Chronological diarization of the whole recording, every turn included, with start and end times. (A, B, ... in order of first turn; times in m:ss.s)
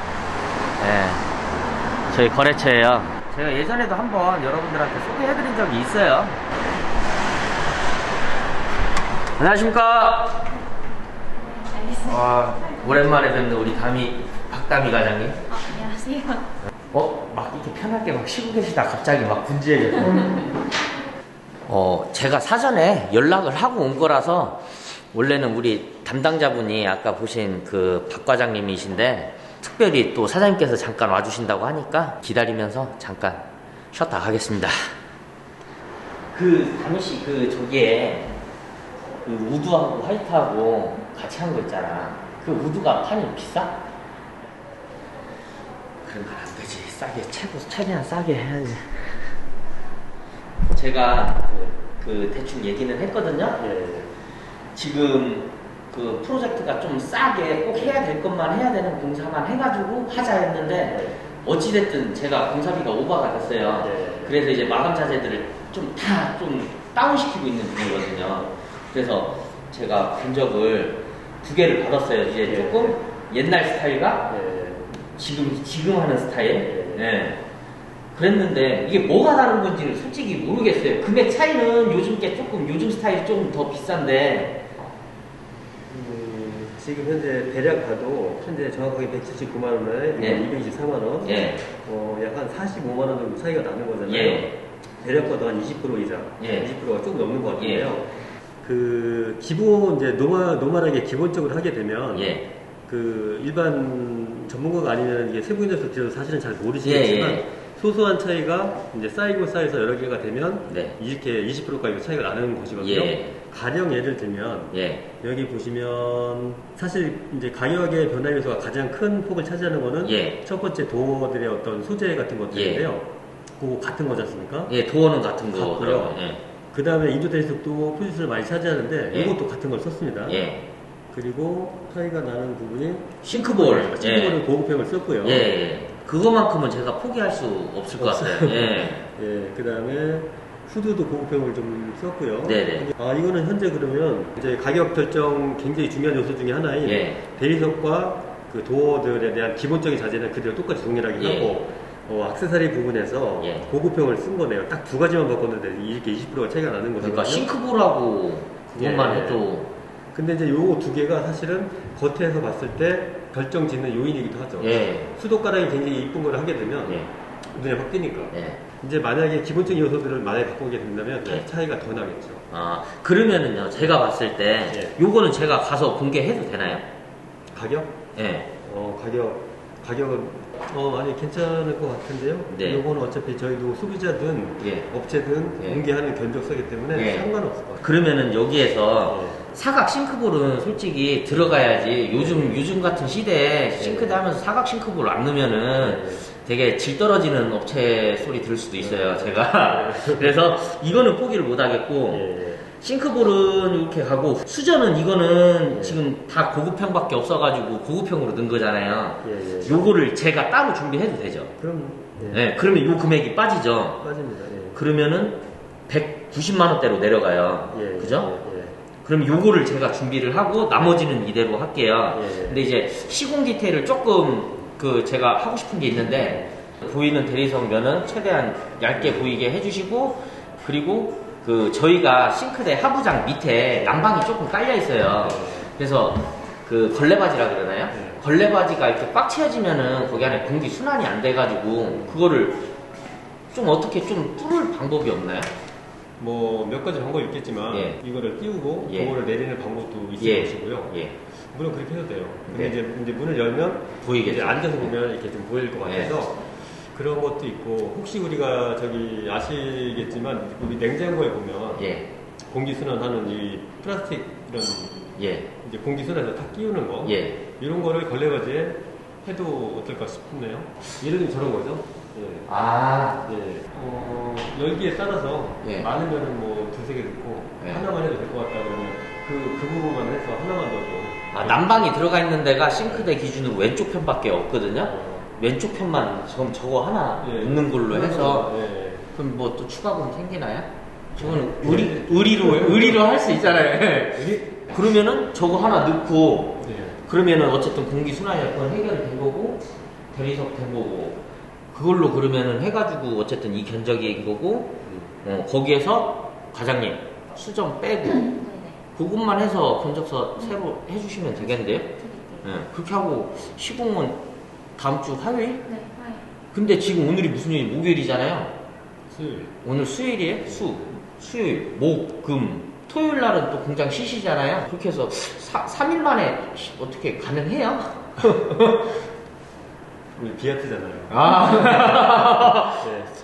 0:00.8-0:01.2 A
0:02.1-0:06.4 A
0:09.4-0:10.4 A
0:11.6-0:11.9 B
0:11.9-0:15.4 A
0:15.7-0:16.4 B
0:16.9-0:20.5 A
0:21.7-0:34.9 A
0:36.3-0:38.3 A
0:39.2-0:43.8 A
0:46.0-0:49.2 A
0:50.7-0:53.6 A
0:53.6-0:54.1 C
0:54.7-1:14.3 A
1:00.9-1:01.2 C
1:03.8-1:04.3 C
1:12.4-1:13.0 C
1:14.3-1:14.9 C
1:15.0-1:17.4 A
1:16.6-1:17.0 C
1:18.1-1:24.7 A
1:25.9-1:38.1 C
1:30.2-1:30.4 A
1:31.2-1:31.6 A
1:34.0-1:34.5 A
1:36.4-1:36.7 A
1:37.6-1:37.9 A
1:38.6-2:03.1 C
1:42.1-1:42.5 A
1:46.8-1:47.5 A
1:50.7-1:51.0 A
1:52.8-1:53.4 A
1:54.7-1:55.1 A
2:00.0-2:00.4 A
2:02.5-2:02.9 A
2:03.6-2:04.7 C
2:04.7-2:06.4 A
2:05.5-2:06.2 C
2:06.7-2:10.4 C
2:10.2-2:10.7 A
2:11.1-2:15.5 C
2:13.2-2:14.4 A
2:15.2-2:19.1 A
2:18.0-2:37.5 C
2:22.4-2:22.9 A
2:26.8-2:27.2 A
2:31.2-2:31.5 A
2:33.4-2:33.7 A
2:37.0-2:39.7 A
2:38.7-2:39.5 C
2:40.1-2:52.4 C
2:44.6-2:45.1 A
2:48.3-2:48.6 A
2:52.5-2:56.8 A
2:57.5-2:58.0 C
2:58.1-2:58.5 A
2:58.6-3:07.9 C
3:02.5-3:02.8 A
3:04.6-3:04.9 A
3:05.6-3:05.8 A
3:06.9-3:07.3 A
3:07.8-3:31.6 A
3:09.1-3:09.4 C
3:12.2-3:12.6 C
3:13.8-3:14.2 C
3:15.8-3:16.2 C
3:18.8-3:20.3 C
3:22.1-3:22.6 C
3:25.7-3:26.0 C
3:29.2-3:29.9 C
3:31.6-3:32.4 C
3:32.3-3:34.0 A
3:34.0-3:34.8 C
3:34.7-3:38.3 A
3:37.7-3:38.8 C
3:39.0-4:02.7 A
3:42.1-3:42.6 C
3:55.2-3:55.7 C
3:57.9-3:58.2 C
4:01.9-4:02.2 C
4:03.5-4:05.5 A
4:06.2-4:11.0 C
4:07.7-4:08.0 A
4:08.8-4:09.2 A
4:10.2-4:11.2 A
4:11.5-4:25.0 C
4:12.5-4:12.8 A
4:14.0-4:15.0 A
4:15.8-4:16.2 A
4:21.8-4:22.1 A
4:25.2-4:25.5 A
4:25.6-4:32.5 C
4:27.0-4:27.4 A
4:32.5-4:33.3 A
4:33.2-4:41.8 C
4:35.6-4:35.9 A
4:37.6-4:37.9 A
4:41.3-4:48.5 A
4:44.8-4:45.3 C
4:47.2-4:49.0 C
4:49.1-4:59.6 A
4:51.2-4:53.1 C
4:54.1-4:54.7 C
4:56.6-4:57.0 C
5:00.1-5:08.3 A
5:04.8-5:05.1 C
5:08.2-5:08.8 B
5:08.9-5:14.2 A
5:11.9-5:12.4 B
5:14.8-5:15.8 A
5:15.7-5:16.2 B
5:16.5-5:18.6 A
5:19.1-5:19.5 C
5:19.6-5:29.0 A
5:30.2-5:33.1 C
5:31.1-5:32.9 A